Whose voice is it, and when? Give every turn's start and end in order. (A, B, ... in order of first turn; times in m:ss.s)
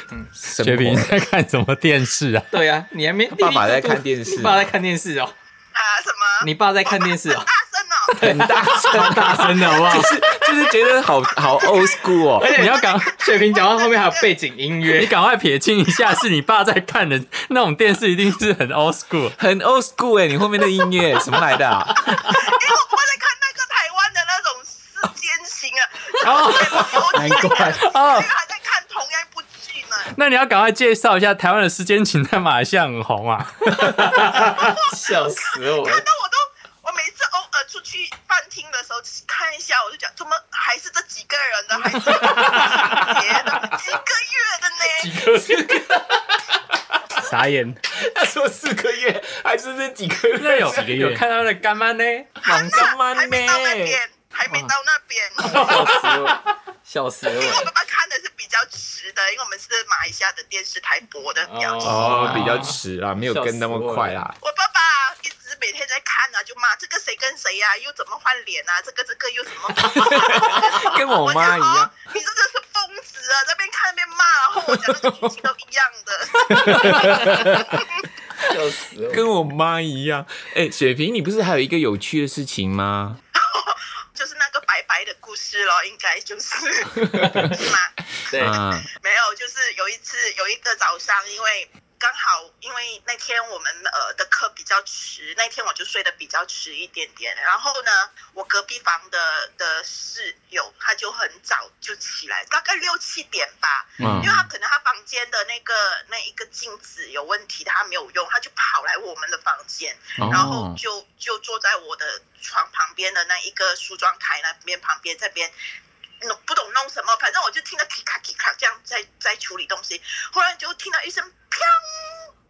0:00.4-0:01.2 A
0:00.6-0:02.5 B
0:02.5-0:05.4 C
0:03.3-0:04.7 A
0:05.7-0:08.2 D
0:06.4-0:07.5 C
0:08.1-0:10.0 C
0:08.2-0:12.6 A
0:08.5-0:10.1 E
0:10.3-0:14.4 D
0:12.4-0:15.2 C
0:12.5-0:13.2 B
0:14.9-0:19.4 B
0:19.4-0:22.5 A
0:22.1-0:30.1 D
0:26.3-0:26.9 C
0:27.1-0:28.0 E
0:27.8-0:28.3 B
0:30.1-0:34.5 B
0:33.9-0:36.1 C
0:34.4-0:45.3 D
0:42.0-0:43.1 B
0:45.0-0:46.0 B
0:45.3-0:46.2 A
0:47.2-0:47.8 E
0:47.9-0:51.2 A
0:50.4-0:52.4 B
0:50.7-0:51.2 E
0:52.4-0:54.0 A
0:52.4-0:55.8 D
0:55.4-0:57.7 C
0:57.4-1:02.3 D
1:01.4-1:04.3 C
1:01.8-1:04.4 A
1:04.4-1:18.0 D
1:09.8-1:11.9 A
1:18.4-1:19.3 C
1:19.1-1:23.2 A
1:23.4-1:55.5 D
1:28.3-1:28.6 C
1:28.3-1:28.9 A
1:44.0-1:44.4 E
1:44.0-1:44.3 A
1:50.2-1:50.5 E
1:50.2-1:50.8 A
1:56.2-2:02.3 D